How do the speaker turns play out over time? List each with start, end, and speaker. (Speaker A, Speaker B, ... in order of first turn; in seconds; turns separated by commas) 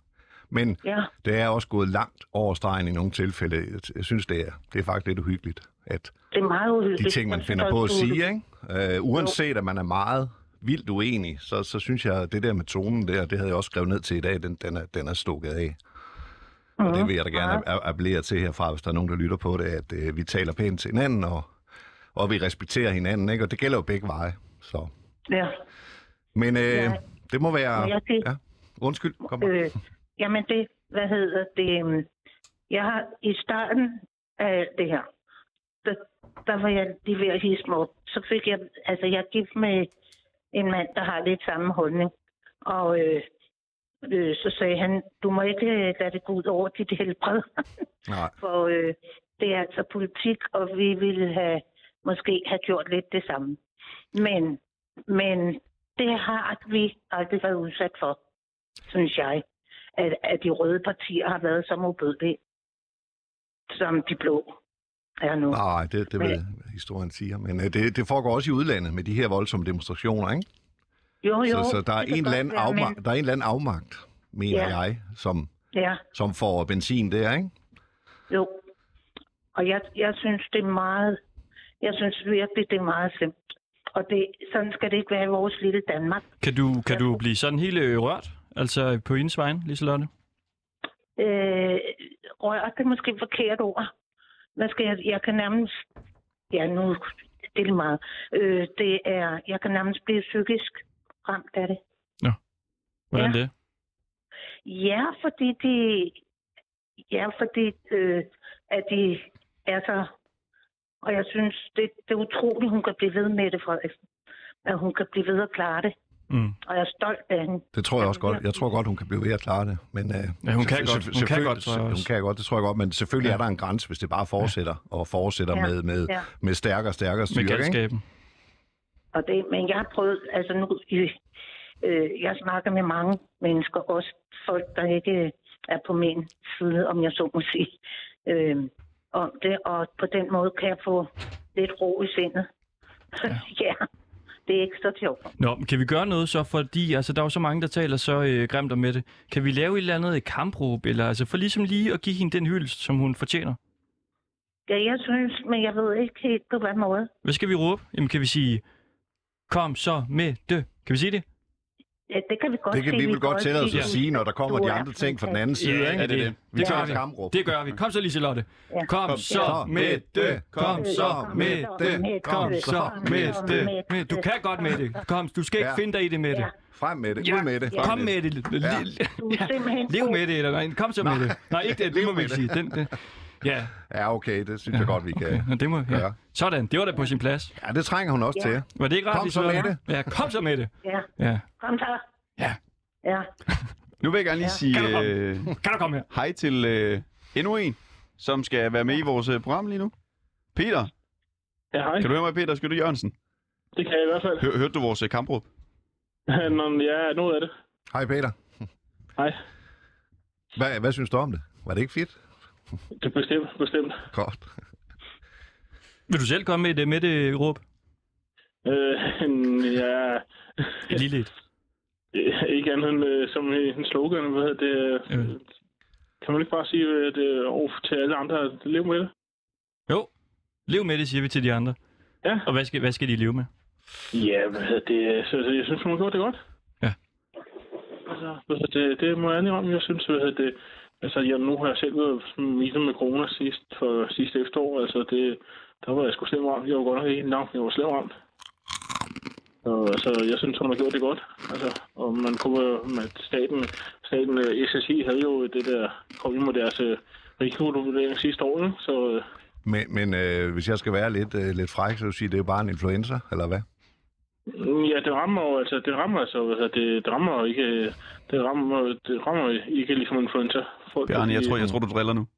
Speaker A: 0.5-6.2, Speaker B: 0.8-1.1, Speaker B: 6.3-8.2, Speaker A: 7.0-15.8, Speaker B: 16.8-17.6, Speaker A: 16.9-21.5, Speaker A: 22.1-24.9, Speaker B: 25.3-25.6, Speaker A: 26.4-29.6, Speaker B: 26.7-27.0, Speaker B: 27.8-28.2, Speaker B: 29.4-32.1, Speaker B: 32.7-35.1, Speaker B: 35.9-39.9, Speaker B: 40.5-42.1, Speaker B: 42.6-43.3, Speaker B: 44.0-47.6, Speaker A: 48.1-48.3, Speaker B: 48.4-53.6, Speaker B: 54.1-58.2, Speaker B: 58.9-59.4, Speaker B: 60.0-62.4, Speaker B: 63.7-64.5, Speaker B: 65.2-65.6, Speaker A: 65.5-70.5, Speaker B: 71.2-73.0, Speaker A: 71.5-75.5, Speaker B: 74.5-74.8, Speaker B: 75.7-76.0, Speaker A: 76.1-77.5, Speaker B: 78.3-78.6, Speaker B: 79.5-81.2, Speaker B: 81.8-83.3, Speaker B: 84.0-86.2, Speaker C: 86.4-90.1, Speaker B: 86.9-87.2, Speaker B: 91.2-93.9, Speaker B: 94.6-95.8, Speaker B: 96.5-101.8, Speaker C: 103.1-103.5, Speaker B: 103.2-103.4, Speaker B: 104.7-106.2, Speaker B: 107.1-110.1, Speaker B: 111.0-114.0, Speaker B: 114.7-115.9, Speaker C: 116.3-116.6, Speaker B: 116.6-118.4, Speaker A: 117.7-127.8, Speaker C: 120.4-122.1, Speaker B: 125.5-126.2, Speaker C: 127.3-128.0, Speaker B: 129.1-131.2, Speaker B: 131.8-137.7, Speaker B: 138.3-142.5, Speaker B: 143.2-143.8, Speaker B: 144.5-145.3, Speaker C: 145.4-153.6, Speaker B: 154.7-157.1, Speaker C: 157.2-158.6, Speaker C: 159.5-161.2, Speaker B: 162.1-165.4, Speaker A: 162.7-167.6, Speaker C: 163.7-163.9, Speaker C: 165.6-176.5, Speaker D: 165.9-167.0, Speaker B: 168.7-169.5, Speaker D: 169.1-170.9, Speaker A: 169.3-172.9, Speaker B: 170.8-175.0, Speaker D: 172.4-173.7, Speaker A: 175.6-175.8, Speaker A: 176.7-178.9, Speaker C: 177.2-183.7, Speaker B: 179.2-180.2, Speaker A: 181.0-182.9, Speaker A: 183.8-186.2, Speaker C: 184.7-187.6, Speaker A: 187.6-189.8, Speaker B: 188.3-188.6, Speaker C: 188.8-191.5, Speaker B: 191.6-192.0, Speaker D: 194.0-195.5, Speaker C: 194.7-196.1, Speaker D: 196.1-199.9, Speaker D: 200.6-200.9, Speaker E: 201.7-202.1, Speaker D: 202.0-203.1, Speaker E: 203.8-204.5, Speaker D: 204.4-205.5, Speaker E: 206.3-207.5, Speaker A: 207.9-208.4, Speaker A: 210.6-212.2, Speaker E: 213.0-214.0, Speaker A: 214.1-214.5, Speaker C: 216.1-217.6, Speaker E: 218.7-220.9, Speaker C: 220.9-221.3, Speaker E: 222.1-225.4, Speaker C: 225.1-225.3, Speaker E: 226.2-229.1, Speaker C: 230.7-231.8, Speaker C: 232.5-233.5, Speaker E: 234.1-236.4, Speaker E: 238.1-248.1, Speaker E: 249.6-259.2, Speaker A: 259.6-263.6, Speaker E: 264.5-271.6, Speaker D: 271.1-272.3